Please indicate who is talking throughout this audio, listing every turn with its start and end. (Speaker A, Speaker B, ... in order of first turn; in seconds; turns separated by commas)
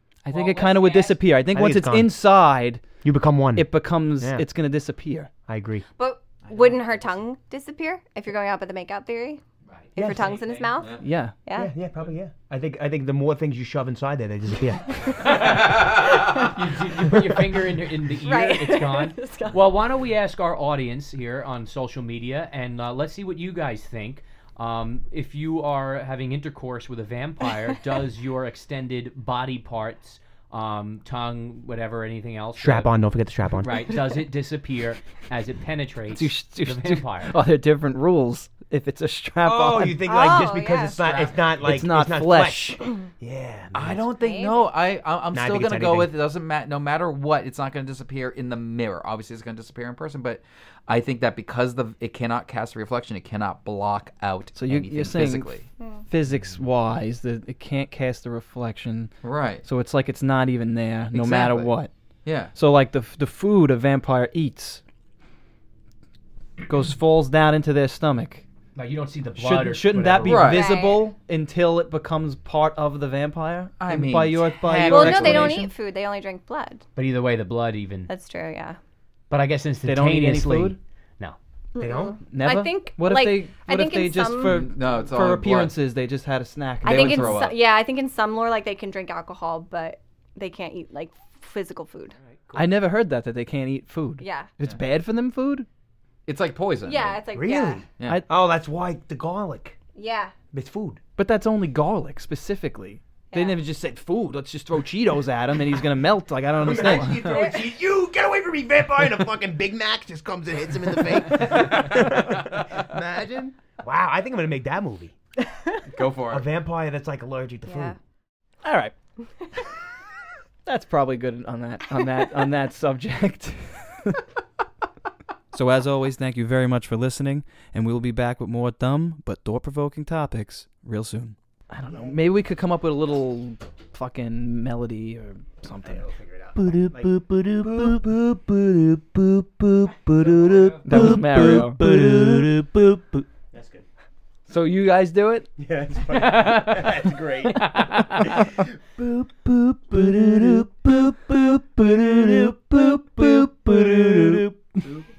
Speaker A: 0.2-2.8, Speaker B: 0.3-1.2, Speaker C: 1.5-2.2, Speaker C: 3.0-4.5, Speaker A: 3.5-5.3, Speaker C: 5.5-5.9, Speaker D: 6.0-9.4, Speaker E: 6.4-7.0, Speaker C: 9.9-10.4, Speaker D: 10.0-11.7, Speaker B: 10.2-10.7, Speaker A: 11.0-11.3, Speaker C: 11.6-15.1, Speaker D: 15.0-15.3, Speaker B: 15.2-15.8, Speaker D: 15.9-16.5, Speaker B: 16.5-32.9, Speaker D: 18.2-19.7, Speaker C: 32.6-33.9, Speaker B: 33.6-37.4, Speaker A: 36.1-40.0, Speaker C: 39.4-44.1, Speaker D: 40.1-41.1, Speaker B: 41.0-41.4, Speaker A: 41.6-42.8, Speaker E: 43.7-55.7, Speaker D: 44.1-44.8, Speaker C: 45.3-46.1, Speaker A: 54.5-55.6, Speaker A: 56.1-61.9, Speaker E: 59.2-59.6, Speaker E: 61.1-61.7, Speaker E: 62.3-62.5, Speaker A: 62.4-64.8, Speaker A: 66.7-68.5, Speaker B: 68.8-70.5, Speaker A: 69.4-75.7, Speaker E: 70.2-70.7, Speaker D: 70.4-71.1, Speaker E: 73.8-75.7, Speaker D: 74.8-76.8, Speaker B: 77.0-78.1, Speaker D: 78.1-78.8, Speaker B: 79.3-81.4, Speaker A: 79.8-80.8, Speaker D: 81.8-84.6, Speaker C: 81.8-82.2, Speaker A: 82.3-87.5, Speaker E: 84.4-85.8, Speaker E: 86.8-87.6, Speaker D: 86.8-92.2, Speaker A: 92.5-95.7, Speaker D: 94.2-94.5, Speaker E: 96.3-97.2, Speaker D: 96.8-97.9, Speaker C: 97.3-99.8, Speaker E: 98.0-98.2, Speaker D: 100.0-100.3, Speaker C: 100.5-101.0, Speaker A: 101.2-107.4, Speaker D: 103.3-103.6, Speaker C: 106.6-115.2, Speaker D: 107.2-107.7, Speaker D: 115.5-115.8, Speaker E: 115.9-116.5, Speaker C: 116.3-118.0, Speaker D: 117.7-118.0, Speaker A: 118.6-118.9, Speaker D: 119.4-119.6, Speaker A: 120.7-124.2, Speaker A: 125.5-136.0, Speaker C: 135.8-143.8, Speaker A: 136.6-138.0, Speaker A: 140.8-142.5, Speaker A: 144.5-145.5, Speaker C: 145.6-155.0, Speaker B: 146.1-148.2, Speaker A: 149.9-151.1, Speaker A: 151.8-154.5